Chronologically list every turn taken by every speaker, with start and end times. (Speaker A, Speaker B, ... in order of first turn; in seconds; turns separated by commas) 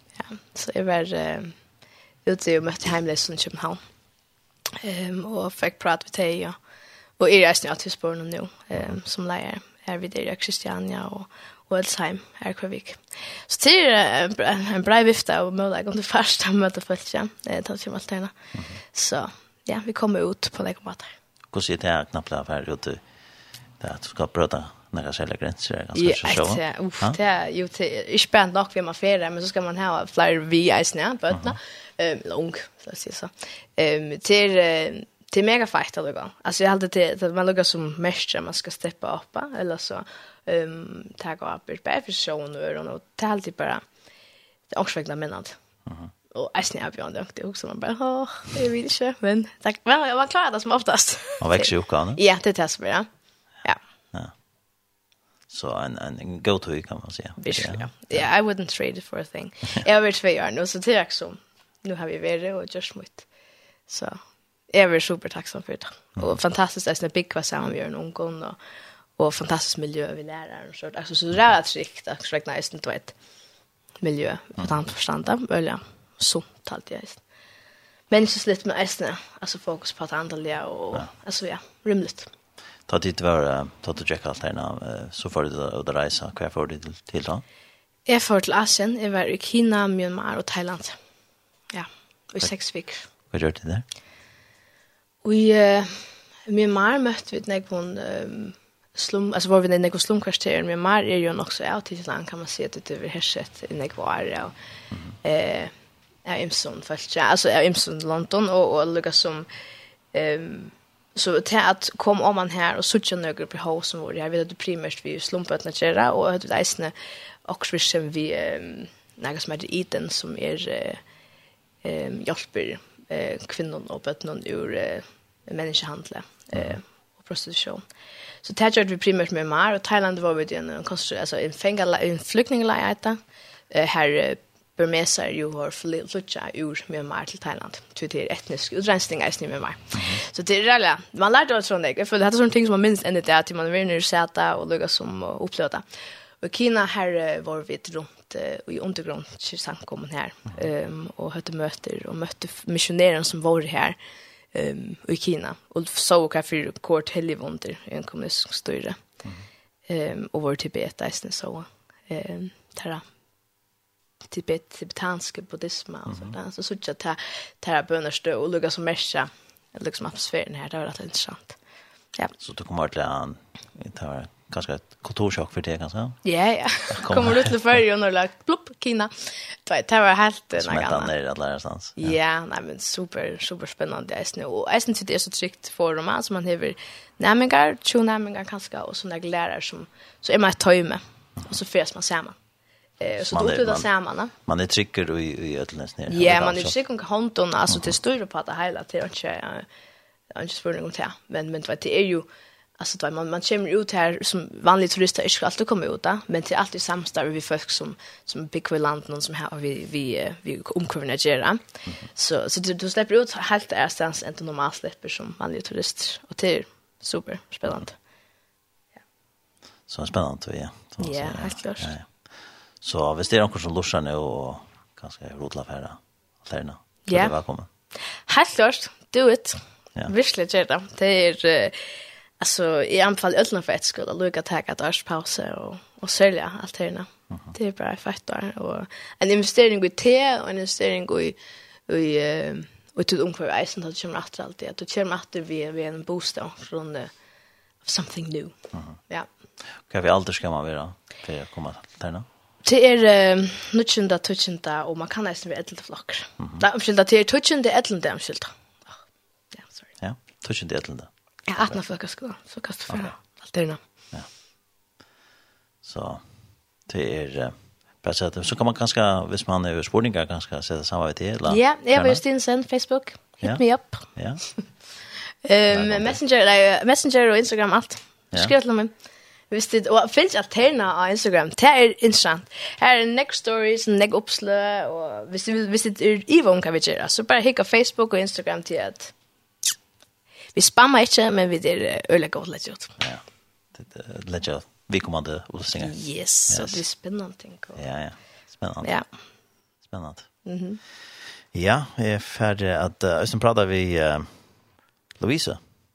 Speaker A: 0.2-1.6, Speaker A: 2.2-3.8, Speaker A: 4.8-6.6, Speaker A: 7.2-18.3, Speaker A: 18.9-21.1, Speaker B: 21.5-23.0, Speaker B: 23.8-27.2, Speaker A: 25.9-43.8, Speaker B: 31.3-31.6, Speaker A: 44.7-45.6, Speaker B: 45.9-46.1, Speaker A: 46.3-53.1, Speaker B: 51.4-52.2, Speaker B: 55.5-58.3, Speaker A: 57.4-63.3, Speaker A: 63.9-64.2, Speaker A: 64.7-68.6, Speaker A: 69.2-73.1, Speaker A: 74.0-77.2, Speaker A: 78.1-82.3, Speaker B: 82.9-87.4, Speaker A: 88.1-91.0, Speaker A: 91.7-93.0, Speaker B: 93.3-93.8, Speaker A: 95.2-104.5, Speaker A: 105.2-105.7, Speaker A: 106.2-109.5, Speaker A: 110.1-116.9, Speaker A: 117.5-121.0, Speaker A: 121.8-127.8, Speaker A: 128.4-145.8, Speaker B: 139.9-140.2, Speaker A: 146.4-154.0, Speaker A: 154.5-159.0, Speaker A: 159.9-163.0, Speaker A: 164.2-171.6, Speaker B: 172.4-176.2, Speaker A: 176.2-181.1, Speaker B: 176.9-177.5, Speaker B: 180.5-182.2, Speaker A: 182.0-192.4, Speaker A: 193.0-194.3, Speaker B: 193.2-193.9, Speaker B: 194.4-196.7, Speaker A: 196.1-199.7, Speaker A: 200.3-202.3, Speaker A: 202.8-211.6, Speaker A: 212.2-217.9, Speaker B: 219.9-222.1, Speaker A: 221.0-221.9, Speaker B: 222.8-227.7, Speaker A: 227.1-227.4, Speaker A: 228.2-231.8, Speaker A: 232.4-247.1, Speaker A: 247.8-248.6, Speaker B: 249.8-252.3, Speaker A: 252.6-258.5, Speaker B: 260.0-261.1, Speaker A: 261.5-263.8, Speaker B: 265.8-266.2, Speaker B: 266.9-272.2, Speaker A: 271.5-274.1, Speaker B: 273.4-274.4, Speaker A: 275.4-278.9, Speaker B: 275.7-276.2, Speaker A: 279.5-289.1, Speaker A: 290.6-292.9, Speaker B: 293.7-296.8, Speaker A: 295.8-297.8, Speaker B: 297.8-298.9, Speaker B: 299.9-300.3, Speaker A: 300.4-300.8, Speaker B: 301.5-304.4, Speaker B: 305.2-305.6